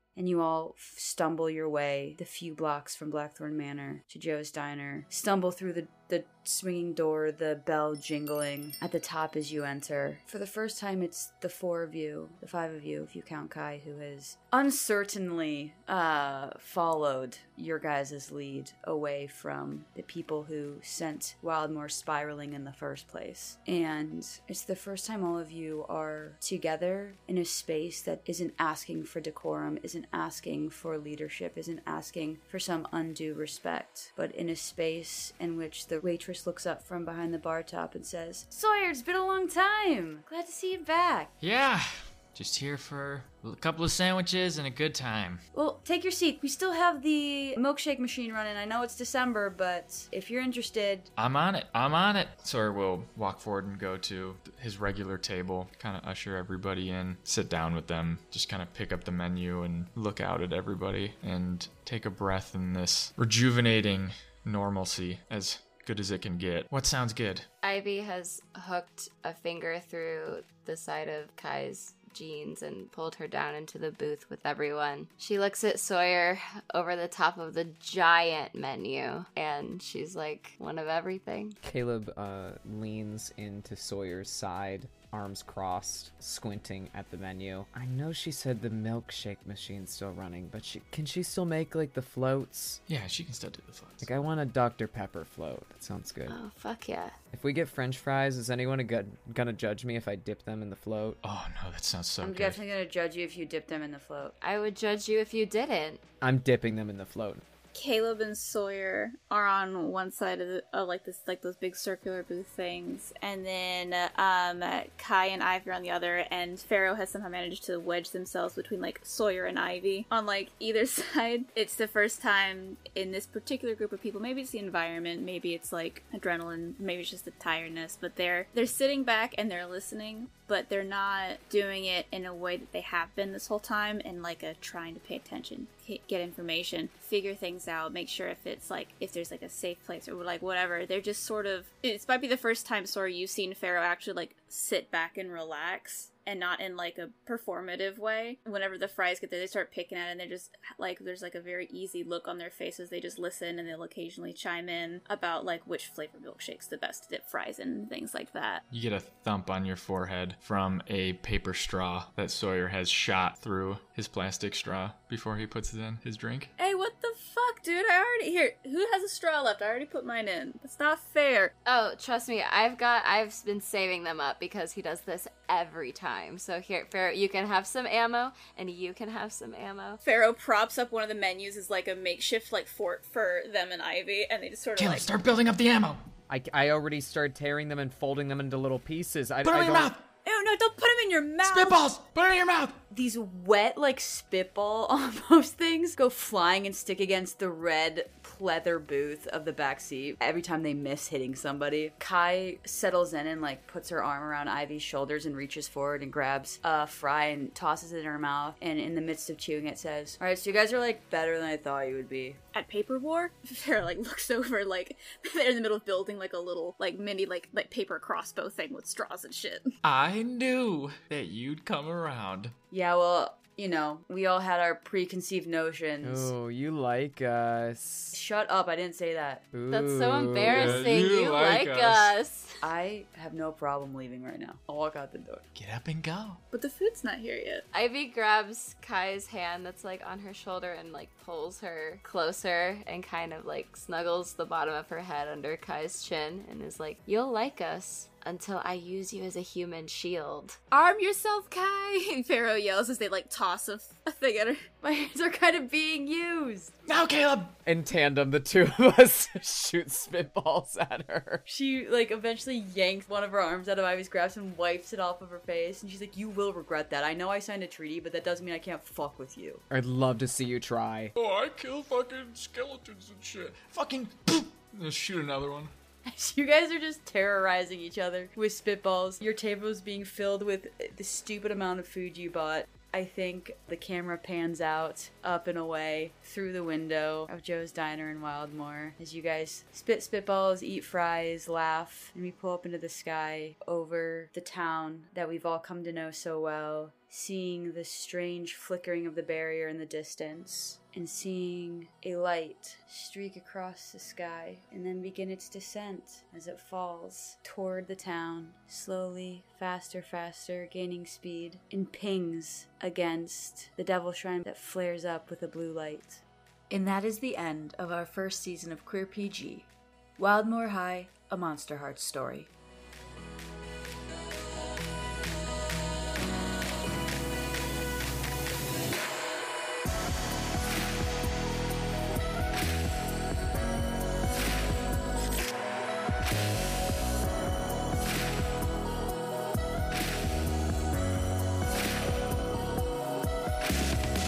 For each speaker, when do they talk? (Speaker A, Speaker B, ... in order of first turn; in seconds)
Speaker A: 0.1-41.3, 45.5-51.1, 102.2-104.3, 190.2-191.7, 192.9-212.4, 222.7-226.3, 228.1-229.5, 232.6-235.5, 254.8-256.8, 261.5-269.6, 276.0-322.5
Speaker B: 41.4-45.4, 51.1-67.5, 92.9-94.1, 101.2-102.6, 158.7-166.5, 184.8-186.0, 189.4-190.1, 191.4-192.8, 219.8-222.5, 230.4-232.1, 235.5-236.4, 256.9-257.6, 271.1-275.7
Speaker C: 67.6-81.6, 96.3-97.2, 104.4-106.0, 171.7-180.0, 229.7-232.7, 237.7-250.6
Speaker D: 81.6-92.8, 94.0-96.4, 97.3-101.2, 106.2-107.4, 186.3-189.9, 226.0-228.2, 229.5-230.9, 257.6-261.4, 269.7-271.1
Speaker E: 107.7-158.6, 166.6-171.5, 180.0-185.1, 212.5-219.7, 236.5-237.7, 250.7-254.7